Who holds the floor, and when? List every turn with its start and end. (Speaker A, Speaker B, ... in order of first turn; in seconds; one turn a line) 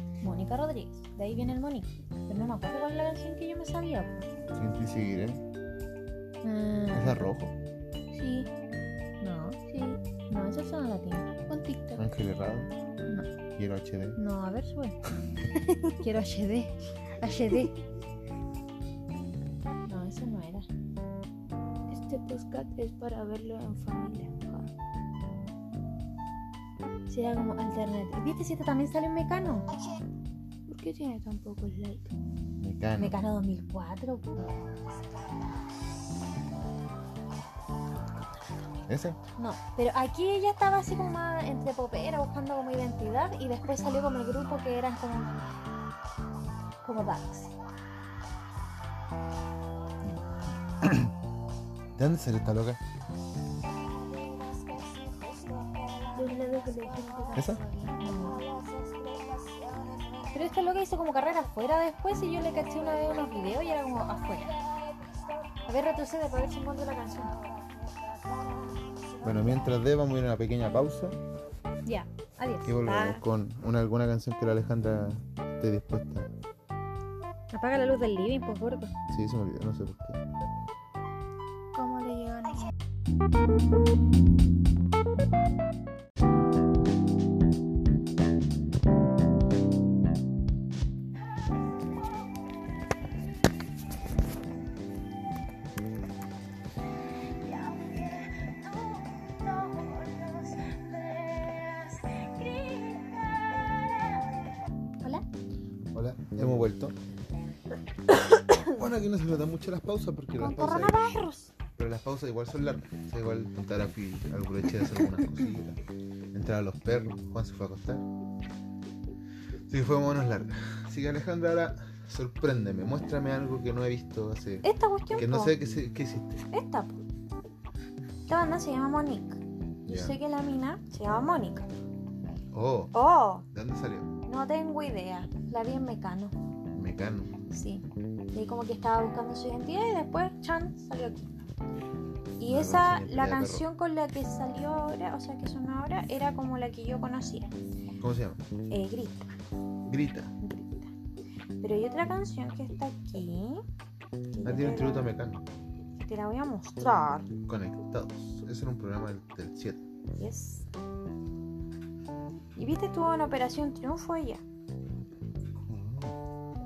Speaker A: 0.2-4.3
Speaker B: 4.5-5.4
Speaker A: 6.4-7.3
Speaker B: 6.9-7.5
Speaker C: 8.1-8.5
Speaker A: 9.2-9.6
Speaker C: 9.7-10.0
Speaker A: 10.3-11.3
Speaker C: 11.5-12.1
Speaker B: 12.0-12.7
Speaker B: 13.6-14.2
Speaker A: 14.2-15.0
Speaker A: 15.9-17.8
Speaker A: 19.9-20.7
Speaker C: 21.9-24.7
Speaker A: 27.1-29.7
Speaker C: 30.7-32.1
Speaker B: 32.6-33.2
Speaker A: 33.0-34.4
Speaker B: 38.9-39.2
Speaker A: 39.4-45.4
Speaker A: 46.8-47.5
Speaker B: 50.8-51.1
Speaker B: 52.0-52.8
Speaker C: 56.1-58.1
Speaker A: 56.4-58.4
Speaker B: 57.3-57.6
Speaker A: 60.3-64.6
Speaker A: 65.7-67.3
Speaker B: 69.2-71.2
Speaker A: 71.8-73.2
Speaker B: 72.7-76.3
Speaker A: 77.5-78.9
Speaker B: 79.1-80.2
Speaker C: 81.7-82.6
Speaker A: 99.3-104.2
Speaker A: 105.0-105.3
Speaker B: 105.9-107.0
Speaker A: 108.1-108.7
Speaker B: 108.7-111.0
Speaker A: 110.4-111.5
Speaker B: 111.8-115.8
Speaker B: 116.3-118.0
Speaker B: 119.7-126.4
Speaker A: 124.6-125.6
Speaker A: 126.5-127.0
Speaker A: 128.3-131.7
Speaker B: 129.9-130.2
Speaker B: 132.5-132.9
Speaker A: 132.9-133.4
Speaker B: 133.5-134.1
Speaker A: 134.2-136.3
Speaker B: 136.7-137.3
Speaker A: 137.5-141.4
Speaker A: 142.4-147.5
Speaker B: 142.4-143.7
Speaker B: 148.0-148.4
Speaker A: 148.7-149.3
Speaker B: 149.9-150.3
Speaker A: 150.4-150.9
Speaker A: 151.6-153.6
Speaker A: 154.3-155.1
Speaker B: 154.4-155.4
Speaker A: 156.0-157.3
Speaker B: 157.5-159.8
Speaker A: 160.2-160.7
Speaker A: 162.6-164.4
Speaker B: 165.7-166.2